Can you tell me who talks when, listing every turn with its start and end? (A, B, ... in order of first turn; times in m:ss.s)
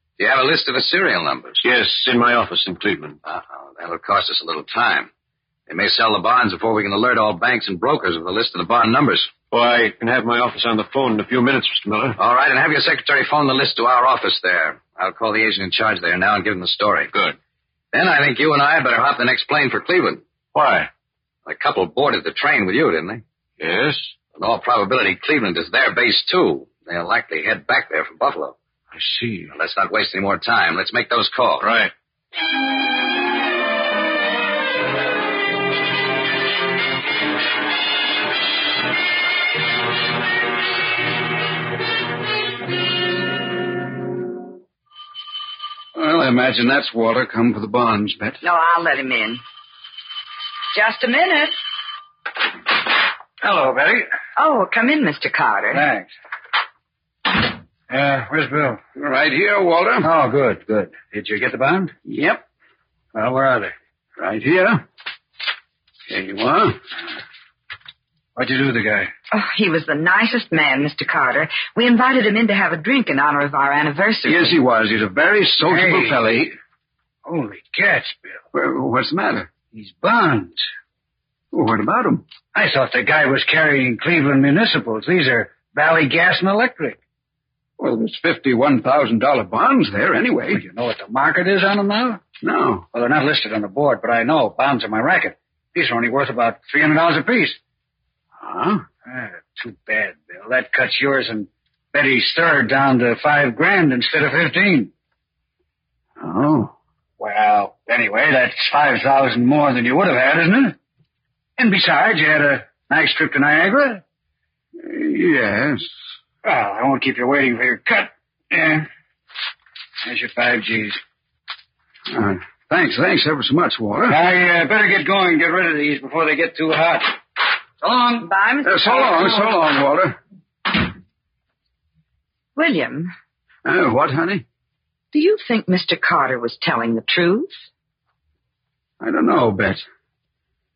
0:00.2-0:01.6 A
0:01.6-0:03.2 B
0:03.2-0:05.1 A
0:05.7-0:09.3 A
0:09.5-0:12.2 B
0:12.2-0:17.1 A
0:17.9-0:20.2 A
0:20.5-0:20.9 B
0:21.4-0:23.2 A
0:23.6-0:24.1 B
0:24.3-0:28.6 A
0:28.9-0:29.5 B
0:29.5-0:31.6 A
0:31.6-0:31.9 B
0:45.9-0:48.4 C
0:48.4-0:49.4 D
0:50.7-0:51.6 D
0:53.4-0:54.1 E
0:54.4-0:55.8 D
0:55.7-0:56.1 E
0:57.9-0:58.9 E
0:58.9-1:00.1 C
1:00.0-1:02.3 E
1:02.1-1:02.4 C
1:03.1-1:03.7 E
1:04.2-1:04.8 C
1:06.1-1:06.8 C
1:08.4-1:09.1 E
1:09.3-1:14.6 D
1:14.2-1:16.5 C
1:15.6-1:16.2 E
1:17.2-1:18.5 E
1:18.5-1:19.5 C
1:19.7-1:20.6 E
1:21.5-1:22.2 C
1:22.5-1:27.0 E
1:27.8-1:30.6 C
1:30.5-1:32.3 E
1:32.4-1:32.8 C
1:32.9-1:37.6 E
1:38.4-1:38.8 C
1:39.0-1:44.9 E
1:46.2-1:46.7 C
1:47.2-1:50.8 E
1:51.6-1:54.0 E
1:54.8-1:55.9 C
1:56.4-1:58.9 E
2:00.0-2:01.0 E
2:02.1-2:04.2 C
2:04.0-2:07.2 E
2:07.8-2:08.3 E
2:08.2-2:09.5 D
2:08.6-2:10.2 C
2:12.6-2:13.1 D
2:13.6-2:14.4 C
2:15.1-2:17.6 D
2:19.0-2:19.8 C